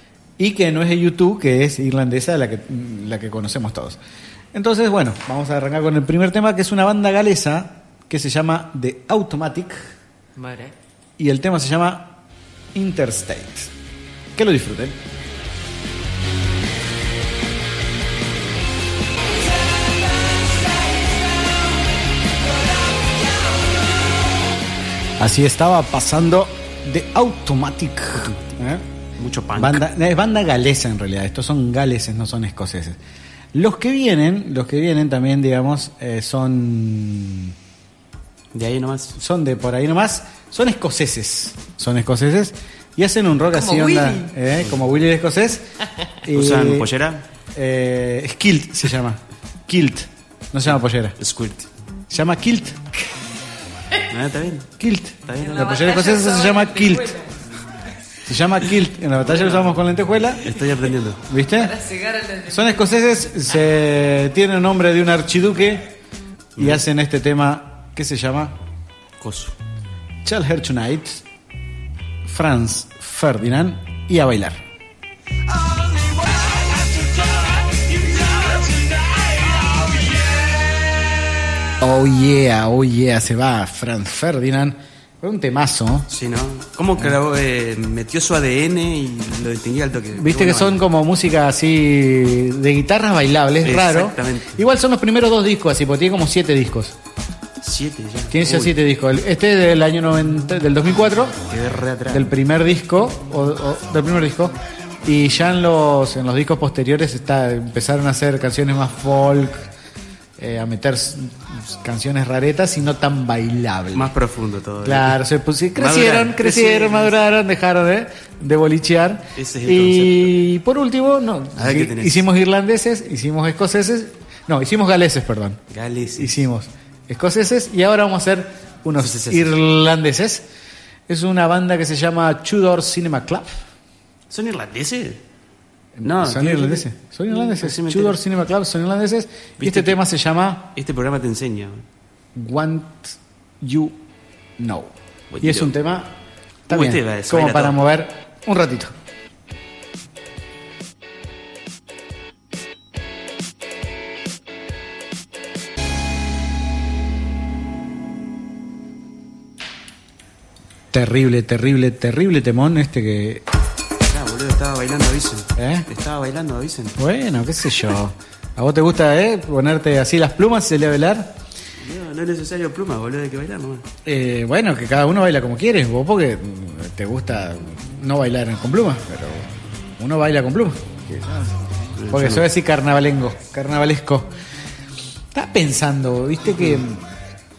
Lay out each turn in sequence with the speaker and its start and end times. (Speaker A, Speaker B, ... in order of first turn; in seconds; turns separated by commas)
Speaker A: 0.4-4.0, Speaker A: 4.5-9.9, Speaker B: 10.3-10.7, Speaker A: 11.2-12.2, Speaker A: 12.7-13.7, Speaker A: 14.3-15.0, Speaker A: 25.2-28.8, Speaker C: 28.1-28.6, Speaker C: 29.2-29.8, Speaker A: 29.6-33.0, Speaker A: 33.5-37.5, Speaker C: 38.5-39.1, Speaker A: 39.1-45.6, Speaker B: 43.5-44.3, Speaker A: 46.2-46.9, Speaker C: 46.3-47.2, Speaker A: 47.5-51.1, Speaker C: 51.2-51.7, Speaker A: 52.1-52.8, Speaker C: 54.1-54.7, Speaker A: 54.8-57.1, Speaker C: 55.2-55.6, Speaker B: 55.4-57.3, Speaker A: 58.3-60.4, Speaker C: 59.2-59.8, Speaker C: 60.4-61.2, Speaker A: 61.3-61.7, Speaker B: 61.5-62.9, Speaker A: 62.5-65.9, Speaker A: 66.5-68.5, Speaker C: 66.6-66.8, Speaker C: 69.2-69.5, Speaker A: 70.2-71.2, Speaker A: 72.2-74.6, Speaker A: 81.8-86.1, Speaker C: 86.1-90.8, Speaker A: 90.2-96.9, Speaker C: 93.6-94.6, Speaker C: 97.6-98.7, Speaker A: 98.3-101.4, Speaker C: 101.5-102.3, Speaker A: 102.1-109.7, Speaker A: 110.4-114.1, Speaker C: 113.9-115.2, Speaker A: 114.8-125.6, Speaker C: 115.8-117.2, Speaker C: 119.4-120.3, Speaker C: 121.5-122.2, Speaker C: 125.7-126.4, Speaker A: 126.2-130.4, Speaker C: 129.0-129.5, Speaker A: 131.1-133.6, Speaker C: 134.3-135.2, Speaker A: 136.0-140.7, Speaker C: 136.0-138.2, Speaker C: 139.6-140.0, Speaker C: 140.8-141.8, Speaker A: 142.3-144.0, Speaker A: 144.6-146.1, Speaker C: 145.3-145.7, Speaker A: 146.7-148.9, Speaker C: 146.7-147.8, Speaker A: 160.9-163.4, Speaker C: 164.1-166.9, Speaker A: 165.6-165.8, Speaker A: 167.0-171.3, Speaker C: 171.8-173.8, Speaker A: 174.1-181.6, Speaker C: 182.0-182.4, Speaker A: 182.1-184.3, Speaker A: 185.3-187.0